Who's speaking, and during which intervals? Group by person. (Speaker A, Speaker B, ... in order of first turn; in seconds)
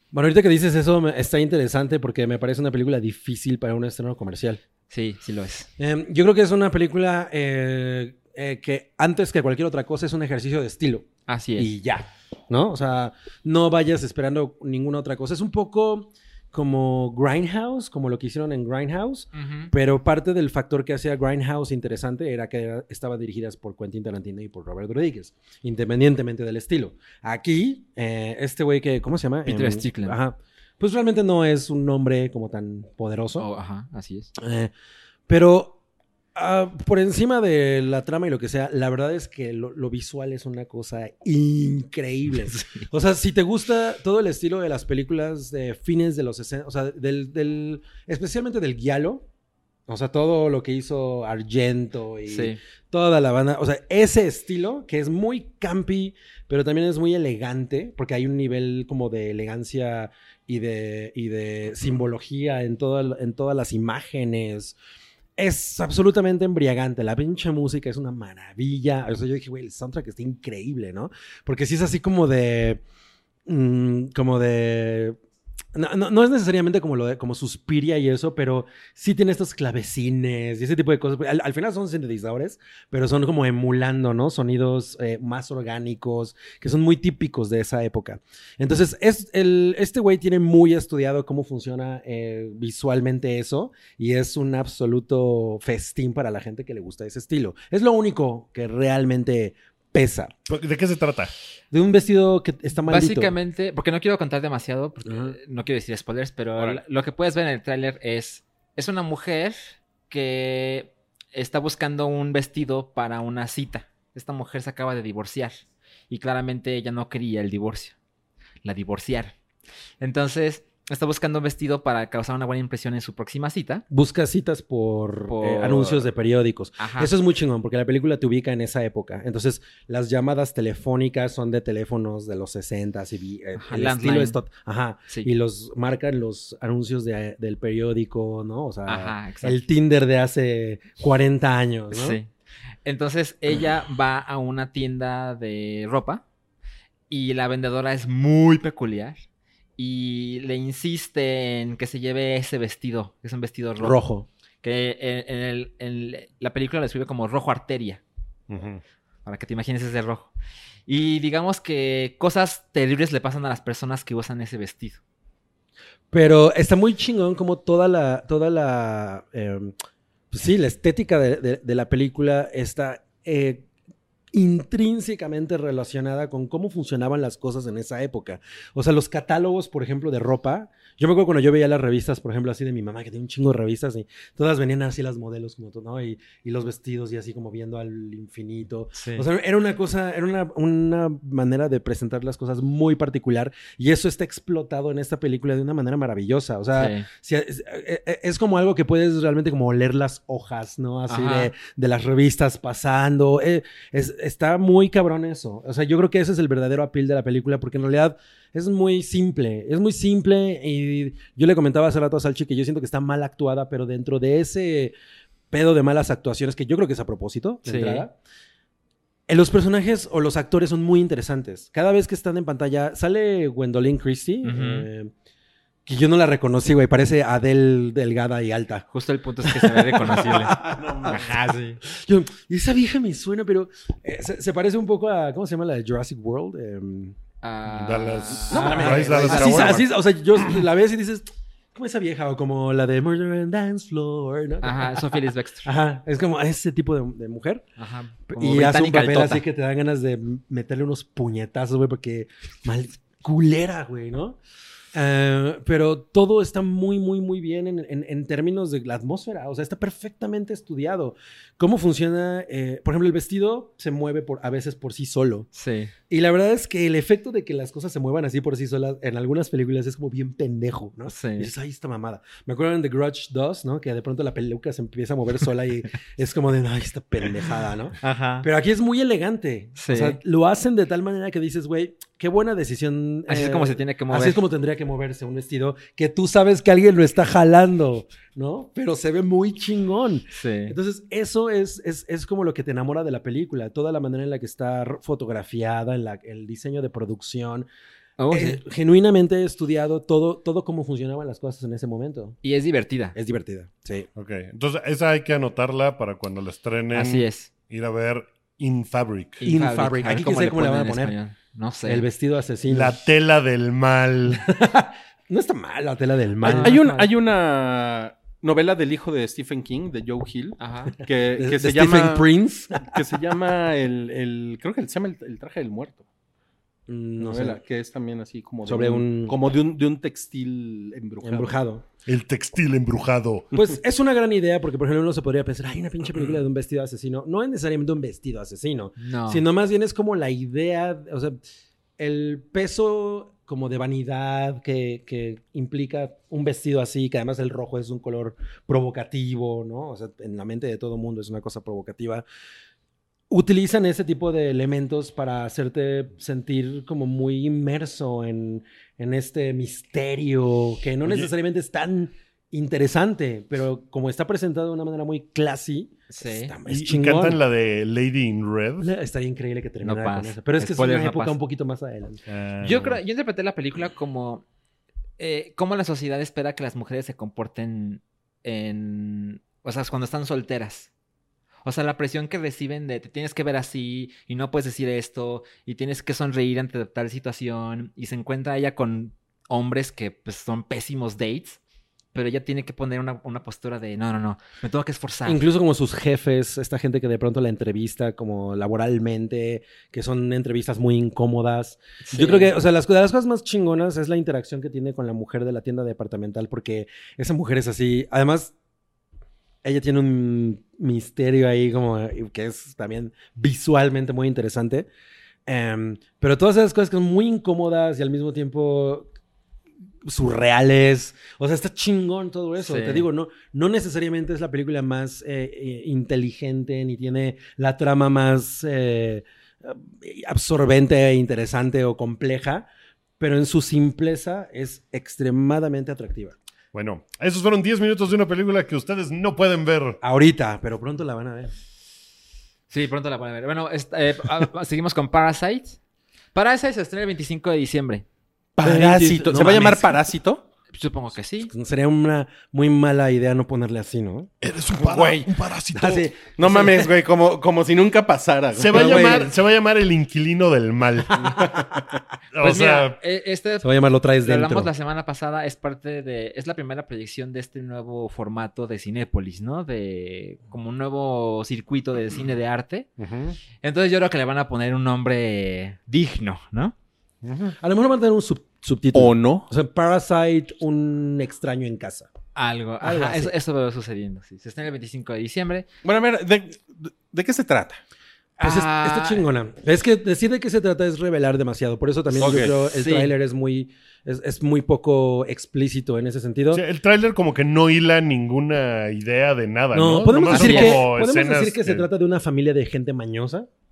Speaker A: 0.1-4.6, 5.8-33.5, 34.4-34.7, 35.3-35.8, 36.3-49.2, 49.9-64.8, 65.4-72.8, 73.5-75.2, 75.7-100.3, 101.7-103.3, 105.0-105.3, 123.9-142.2, 153.8-154.3, 166.1-169.7, 170.3-173.7, 174.3-214.9, 215.5-218.2, 219.3-225.1, 225.8-228.9, 229.4-237.2, 238.5-247.6, 248.3-254.4, 254.9-265.5, 266.1-297.7, 298.3-302.4, 303.1-304.1, 309.4-311.1, 311.9-313.1, 314.3-316.8, 321.4-323.2, 326.9-327.6, 328.6-329.4, 331.2-331.8, 333.5-341.4, 342.0-352.2, 353.3-367.4, 368.8-372.2, 395.2-408.5, 409.6-414.9, 415.4-419.1, 420.0-432.7, 433.2-436.4, 440.0-441.5, 448.6-450.0, 451.5-454.3, 455.7-456.9, 458.7-459.3, 461.1-461.8, 463.6-464.7, 477.6-482.1, 482.8-483.3, 488.4-496.6, 499.7-503.5
Speaker B: 4.9-5.7, 11.3-11.7, 19.3-19.7, 29.4-30.2, 33.4-34.3, 42.5-42.9, 52.3-52.6, 102.8-118.0, 118.6-119.3, 120.0-123.8, 125.3-126.0, 126.8-127.1, 133.6-134.4, 138.8-139.6, 141.9-142.3, 142.8-146.2, 147.1-149.2, 149.8-154.0, 154.6-158.0, 159.2-160.3, 160.9-165.0, 188.9-189.3, 196.8-197.1, 201.1-201.5, 217.6-218.0, 224.4-224.9, 228.9-231.8, 237.4-239.9, 244.6-245.7, 247.8-249.4, 265.5-265.9, 271.1-271.5, 278.0-278.5, 279.8-280.2, 283.3-284.4, 290.3-290.8, 298.2-298.6, 302.4-303.1, 306.9-307.5, 309.4-312.1, 316.4-317.1, 320.6-320.9, 339.0-339.4, 366.1-366.5, 369.8-371.4, 372.6-374.4, 375.2-380.9, 381.6-391.6, 392.1-395.4, 402.0-402.5, 422.6-423.1, 442.7-445.8, 446.3-448.0, 450.7-451.5, 462.4-472.9, 473.6-476.7, 482.3-485.7, 488.4-489.2, 492.7-493.1, 500.3-500.8
Speaker C: 100.5-101.3, 158.5-158.8, 237.7-239.8, 304.1-309.4, 312.7-314.5, 332.1-333.5, 361.0-361.3, 366.7-368.9, 372.3-373.0, 436.7-440.0, 454.4-456.1, 458.6-461.6, 462.3-463.0, 473.0-473.4, 477.2-477.6, 496.5-501.9
Speaker D: 230.6-231.0, 316.4-322.3, 322.9-326.0, 327.2-331.6, 448.6-450.4, 454.8-455.3, 456.4-459.3, 478.9-479.5, 485.8-487.8, 492.1-492.5